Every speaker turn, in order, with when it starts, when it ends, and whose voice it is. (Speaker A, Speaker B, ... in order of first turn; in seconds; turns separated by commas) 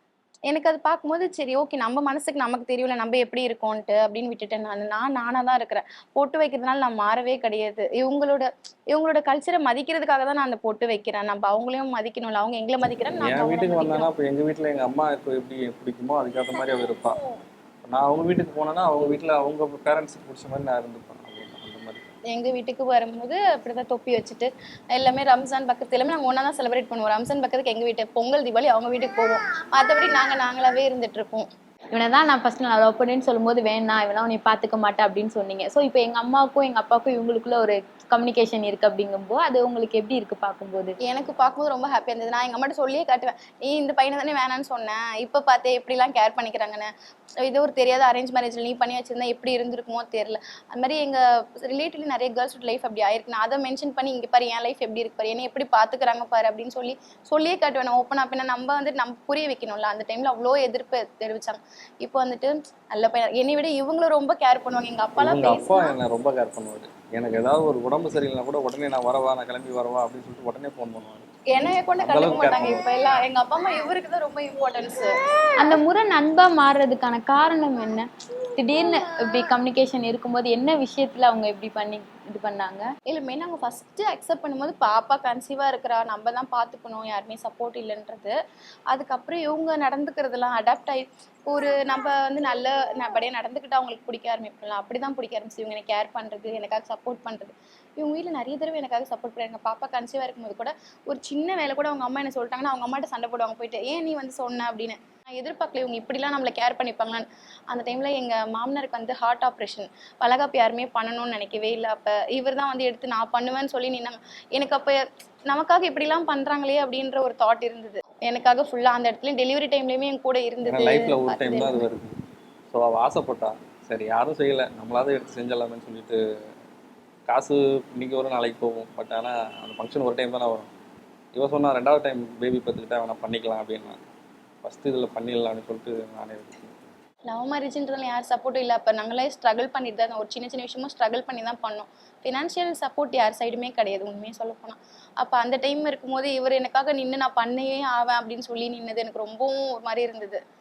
Speaker A: 0.5-14.1, Speaker B: 13.1-17.2, Speaker B: 17.9-22.1, Speaker A: 22.3-31.5, Speaker C: 31.9-40.9, Speaker A: 41.0-46.9, Speaker A: 47.4-66.0, Speaker B: 65.2-71.3, Speaker A: 71.5-75.1, Speaker B: 72.0-72.8, Speaker C: 75.6-82.9, Speaker A: 83.1-88.3, Speaker A: 88.9-121.9, Speaker B: 120.7-122.2, Speaker B: 122.7-126.2, Speaker B: 127.3-130.7, Speaker B: 131.4-134.0, Speaker B: 134.6-136.7, Speaker A: 137.3-150.4